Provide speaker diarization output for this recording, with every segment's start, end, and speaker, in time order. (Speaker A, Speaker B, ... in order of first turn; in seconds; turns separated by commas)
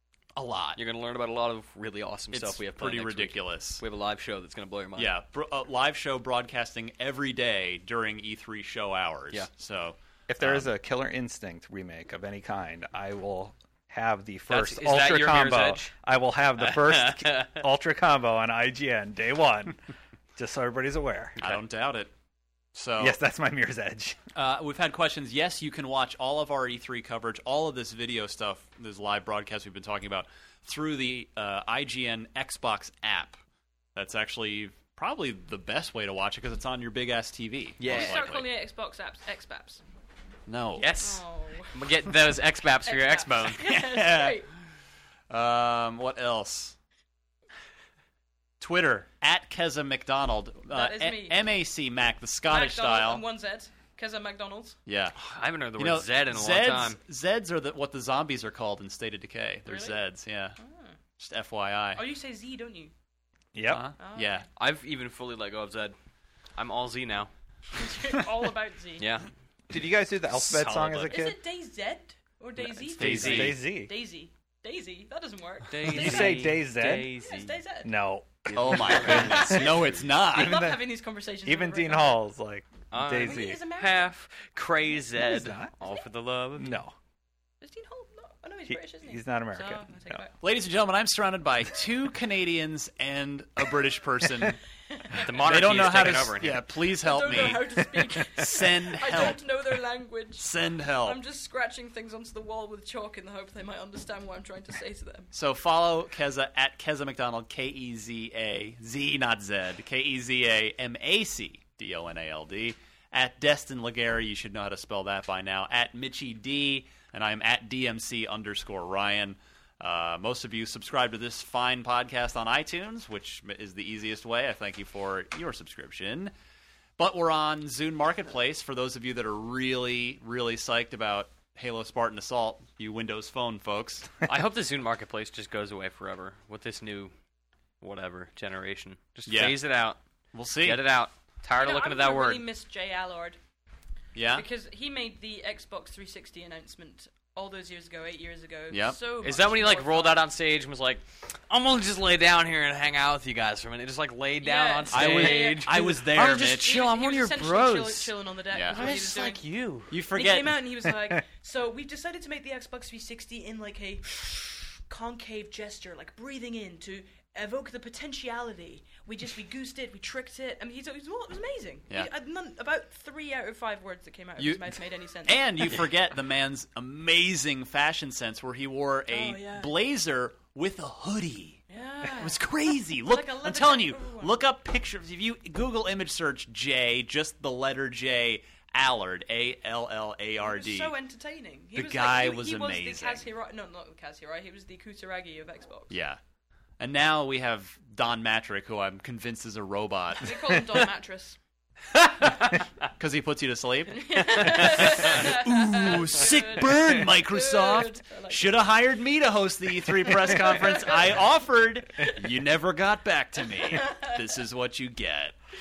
Speaker A: 0.4-0.8, Speaker B: 0.8-5.1, Speaker A: 2.3-3.8, Speaker A: 5.0-10.7, Speaker C: 10.3-19.8, Speaker B: 14.5-15.9, Speaker B: 16.6-17.6, Speaker C: 20.4-21.4, Speaker A: 21.4-22.1, Speaker A: 22.8-23.2, Speaker C: 23.0-24.2, Speaker A: 24.4-33.4, Speaker A: 34.0-38.5, Speaker B: 37.8-38.2, Speaker D: 37.8-39.8, Speaker A: 40.5-41.0, Speaker B: 40.8-43.6, Speaker D: 40.9-42.0, Speaker D: 42.9-44.5, Speaker A: 43.6-44.5, Speaker A: 45.3-46.8, Speaker A: 48.6-53.2, Speaker D: 50.7-51.4, Speaker D: 52.5-54.8, Speaker A: 54.9-55.2, Speaker B: 55.2-57.0, Speaker A: 55.8-60.6, Speaker D: 59.7-60.0, Speaker D: 60.6-60.9, Speaker A: 61.2-62.0, Speaker D: 62.0-62.9, Speaker C: 63.5-63.9, Speaker A: 63.7-64.5, Speaker D: 64.0-64.5, Speaker B: 64.6-66.0, Speaker B: 66.6-67.3, Speaker D: 67.8-69.1, Speaker B: 69.0-69.3, Speaker C: 69.7-71.4, Speaker B: 70.3-71.3, Speaker D: 71.1-78.0, Speaker B: 72.7-73.6, Speaker A: 73.0-73.6, Speaker C: 73.1-73.9, Speaker B: 75.7-77.6, Speaker C: 75.8-77.1, Speaker C: 77.8-80.9, Speaker A: 78.5-80.6, Speaker D: 78.8-82.2, Speaker B: 79.1-79.5, Speaker C: 81.5-83.6, Speaker B: 82.9-86.8, Speaker D: 83.2-84.1, Speaker C: 85.2-85.7, Speaker D: 85.8-86.1, Speaker C: 86.6-87.0, Speaker D: 87.6-90.4, Speaker C: 88.7-90.2, Speaker A: 90.4-94.6, Speaker D: 94.9-95.7, Speaker A: 95.1-99.4, Speaker B: 95.2-96.6, Speaker D: 97.0-100.5, Speaker A: 100.4-101.2, Speaker D: 101.0-105.3, Speaker A: 105.3-126.3, Speaker A: 127.0-134.1, Speaker B: 134.2-137.1, Speaker B: 137.8-140.0, Speaker A: 139.3-139.6, Speaker A: 140.3-140.8, Speaker B: 140.6-142.4, Speaker D: 141.6-143.4, Speaker A: 144.2-144.4, Speaker D: 144.3-150.3, Speaker A: 148.7-149.0, Speaker B: 149.2-158.1, Speaker D: 154.4-159.4, Speaker A: 154.9-156.8, Speaker A: 158.5-159.0, Speaker B: 158.7-159.9, Speaker A: 159.9-160.6, Speaker D: 160.1-175.7, Speaker A: 174.4-181.6, Speaker D: 179.1-179.8, Speaker D: 181.7-184.4, Speaker A: 182.2-190.9, Speaker D: 190.4-195.9, Speaker A: 191.8-193.2, Speaker A: 195.9-196.2, Speaker A: 196.8-200.7, Speaker D: 200.2-201.4, Speaker A: 202.2-215.4, Speaker D: 203.9-208.6, Speaker D: 210.1-211.2, Speaker D: 213.8-214.1